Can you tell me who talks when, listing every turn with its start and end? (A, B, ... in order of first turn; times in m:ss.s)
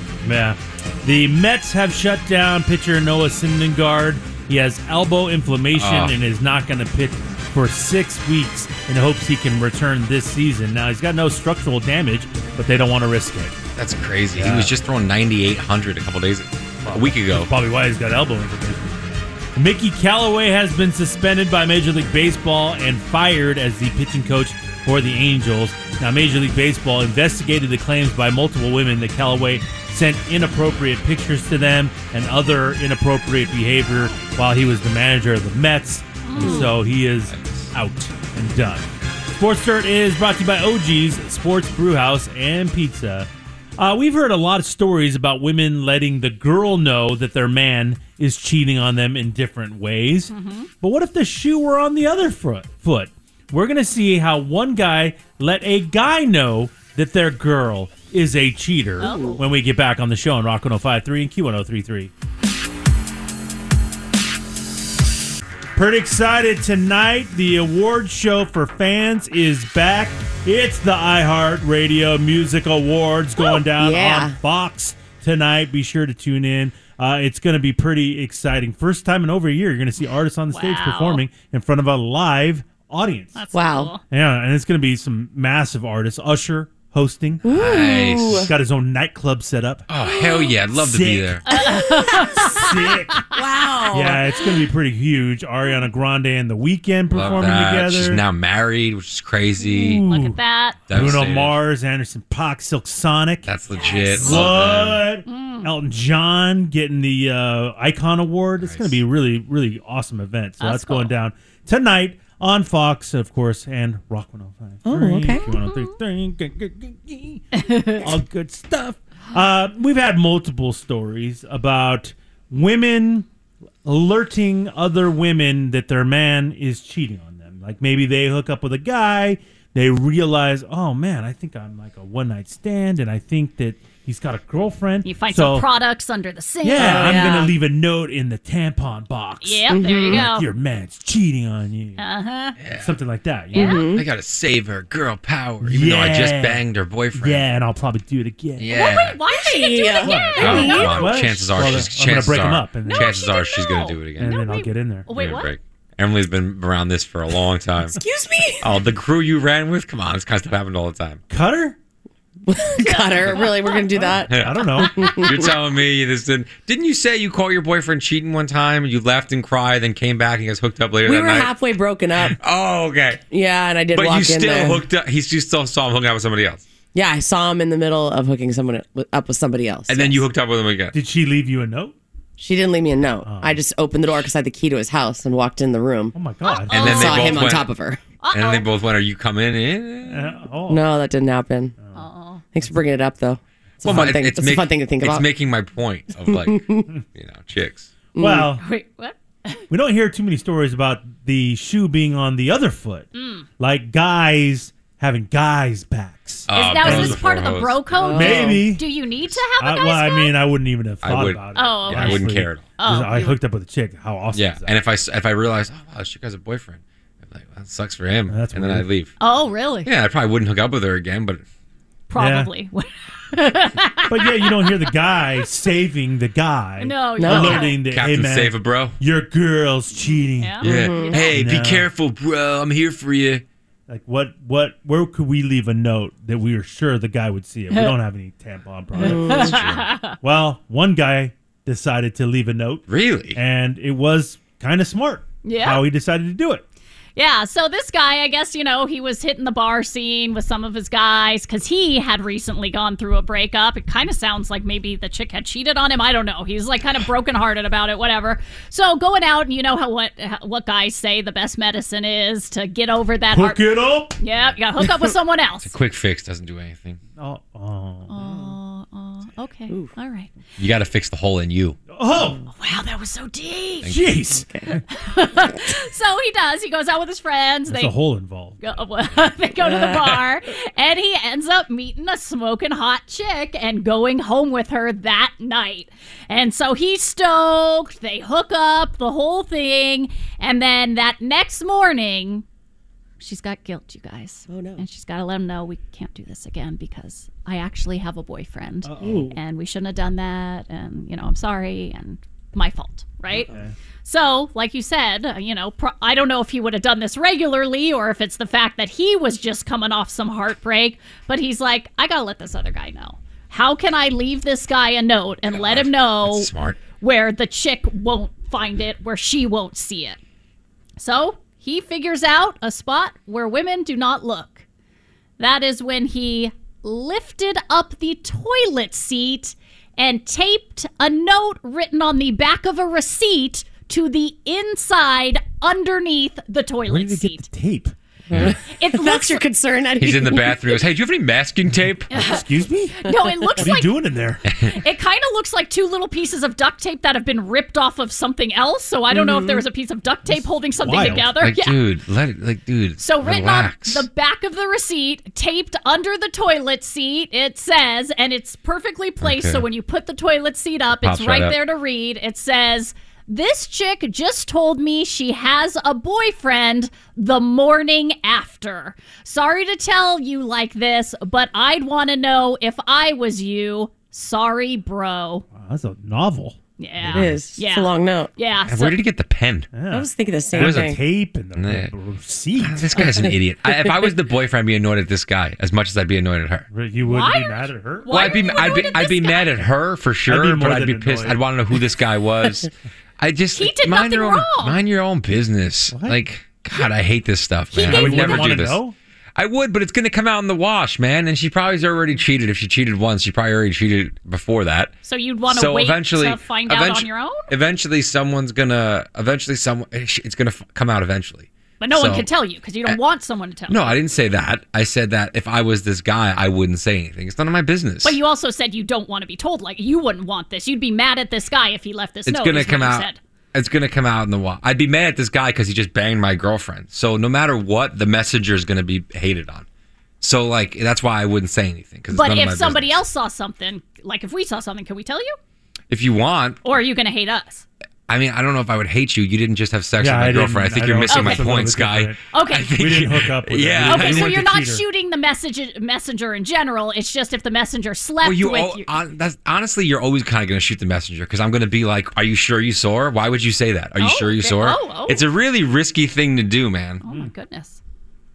0:00.2-0:13.6 A
0:05.7-0:06.2 B
0:13.8-0:17.5 B
0:14.3-0:14.7 A
0:16.8-1:02.1 A
0:34.0-0:34.2 C
0:36.2-0:36.7 C
0:37.2-0:37.7 B
0:50.3-0:50.7 C
0:59.0-0:59.4 C
0:59.0-0:59.4 D
1:05.7-1:23.4 A
1:13.6-1:14.4 D
1:20.5-1:21.2 C
1:23.4-1:24.0 C
1:23.5-1:24.0 D
1:24.1-1:27.4 A
1:27.4-1:28.5 D
1:27.4-1:28.5 B
1:28.4-1:29.9 A
1:29.9-1:31.4 B
1:30.7-1:31.4 A
1:31.5-1:33.4 C
1:31.5-1:32.6 D
1:32.4-1:33.2 A
1:33.3-1:34.3 D
1:33.9-1:38.2 A
1:37.1-1:40.0 B
1:39.6-1:43.5 A
1:40.0-1:40.8 C
1:40.9-1:41.6 B
1:43.4-1:45.1 B
1:44.2-2:03.3 A
1:44.2-1:44.5 C
1:45.2-1:45.7 C
1:48.6-1:49.0 B
1:50.6-1:51.1 C
1:54.8-1:55.5 D
1:55.3-1:56.0 C
1:57.5-1:58.1 C
2:03.8-2:15.7 A
2:15.0-2:17.5 C
2:16.6-2:22.0 A
2:16.7-2:17.6 D
2:19.4-2:20.5 C
2:19.7-2:20.2 D
2:22.0-2:22.6 C
2:22.6-2:22.9 B
2:22.8-2:23.8 A
2:23.5-2:23.8 C
2:23.5-2:24.0 D
2:23.9-2:27.4 B
2:25.6-2:28.8 A
2:28.6-2:29.2 B
2:28.7-2:31.4 C
2:29.3-2:30.8 D
2:30.0-2:33.2 A
2:30.4-2:34.4 B
2:32.8-2:35.5 C
2:34.2-2:35.1 A
2:35.1-2:38.0 B
2:37.9-2:38.7 D
2:38.6-2:41.2 B
2:41.3-2:41.8 A
2:42.5-2:44.3 D
2:42.8-2:43.9 C
2:44.0-2:45.1 A
2:44.3-2:51.6 B
2:44.9-2:45.5 D
2:51.0-2:52.4 D
2:52.3-2:53.2 B
2:53.3-2:54.8 D
2:53.9-2:56.6 B
2:56.9-3:00.2 D
2:59.9-3:01.0 B
3:00.9-3:01.9 A
3:02.4-3:06.1 D
3:03.2-3:03.6 A
3:06.1-3:07.1 A
3:06.4-3:07.3 C
3:06.7-3:07.7 B
3:06.7-3:08.0 D
3:08.2-3:08.7 C
3:08.3-3:10.3 B
3:10.0-3:10.9 A
3:10.7-3:11.7 D
3:11.8-3:12.0 A
3:11.9-3:12.4 C
3:12.5-3:15.3 D
3:13.8-3:17.9 B
3:16.2-3:16.9 D
3:18.1-3:18.6 D
3:18.2-3:18.6 A
3:18.6-3:19.6 C
3:19.7-3:23.1 A
3:23.1-3:23.5 C
3:23.6-3:27.2 A
3:26.5-3:27.8 B
3:26.5-3:30.4 C
3:27.9-3:28.7 D
3:28.1-3:28.8 A
3:29.6-3:34.8 A
3:31.0-3:32.6 B
3:31.5-3:32.3 C
3:32.8-3:33.4 C
3:34.3-3:39.1 B
3:38.3-3:38.8 A
3:39.2-3:39.9 C
3:39.8-3:41.4 B
3:42.1-3:44.9 C
3:42.2-3:42.5 A
3:44.0-3:50.7 A
3:46.8-3:47.8 C
3:47.2-3:47.7 D
3:47.8-3:49.0 B
3:50.4-3:51.3 C
3:50.6-3:51.3 D
3:50.6-3:53.4 B
3:51.3-3:51.9 A
3:53.9-4:06.6 A
3:59.0-3:59.5 D
3:59.0-4:00.2 C
3:59.5-3:59.8 B
4:02.9-4:03.4 B
4:05.4-4:05.8 C
4:07.2-4:23.6 C
4:23.3-4:24.2 A
4:24.2-4:25.7 C
4:25.6-4:27.0 B
4:27.2-4:28.2 A
4:28.1-4:30.3 C
4:30.6-4:31.8 B
4:31.9-4:32.4 A
4:32.6-4:33.9 C
4:33.8-4:34.8 A
4:34.9-4:38.0 C
4:37.7-4:38.7 A
4:38.6-4:52.4 C
4:39.6-4:40.1 D
4:53.2-5:03.5 C
4:54.5-4:54.8 D
4:58.8-4:59.4 A
5:03.5-5:03.7 A
5:04.0-5:20.2 C
5:15.5-5:16.8 B
5:21.0-5:24.6 C
5:25.4-5:37.5 C
5:36.8-5:37.9 A
5:38.3-5:40.8 D
5:38.3-5:38.6 B
5:38.7-5:39.4 C
5:40.0-5:42.1 B
5:42.1-5:44.0 C
5:42.1-5:43.0 A
5:43.1-5:43.5 D
5:43.6-5:44.4 A
5:44.5-5:44.8 B
5:44.6-5:51.8 C
5:49.1-5:49.6 D
5:50.2-5:51.3 A
5:51.4-5:54.0 B
5:53.0-6:15.4 C
5:59.2-5:59.6 B
6:01.0-6:01.6 B
6:15.5-6:16.6 A
6:16.8-6:19.0 C
6:17.0-6:17.4 B
6:17.1-6:18.3 D
6:18.6-6:19.7 B
6:19.7-6:23.1 A
6:19.9-6:21.0 D
6:20.5-6:21.0 B
6:21.5-6:21.9 B
6:22.6-6:26.7 B
6:23.0-6:23.3 D
6:26.7-6:28.9 A
6:27.0-6:29.6 C
6:28.1-6:38.8 B
6:30.2-6:31.4 A
6:33.5-6:34.8 C
6:35.9-6:36.2 A
6:37.7-6:38.6 C
6:37.8-6:39.0 A
6:39.4-6:44.9 B
6:45.0-6:47.5 C
6:45.5-6:52.3 B
6:51.8-6:54.0 C
6:53.7-6:58.2 B
6:58.0-7:03.2 C
7:02.2-7:09.6 B
7:10.2-7:13.0 B
7:12.1-7:15.4 C
7:15.9-7:16.6 B
7:16.6-7:17.6 C
7:18.1-7:24.4 B
7:20.0-7:22.2 A
7:21.1-7:21.5 C
7:22.3-7:22.7 C
7:22.7-7:24.8 A
7:23.8-7:28.9 C
7:28.2-7:37.0 B
7:34.0-7:35.2 C
7:37.0-7:37.8 C
7:37.0-7:37.3 A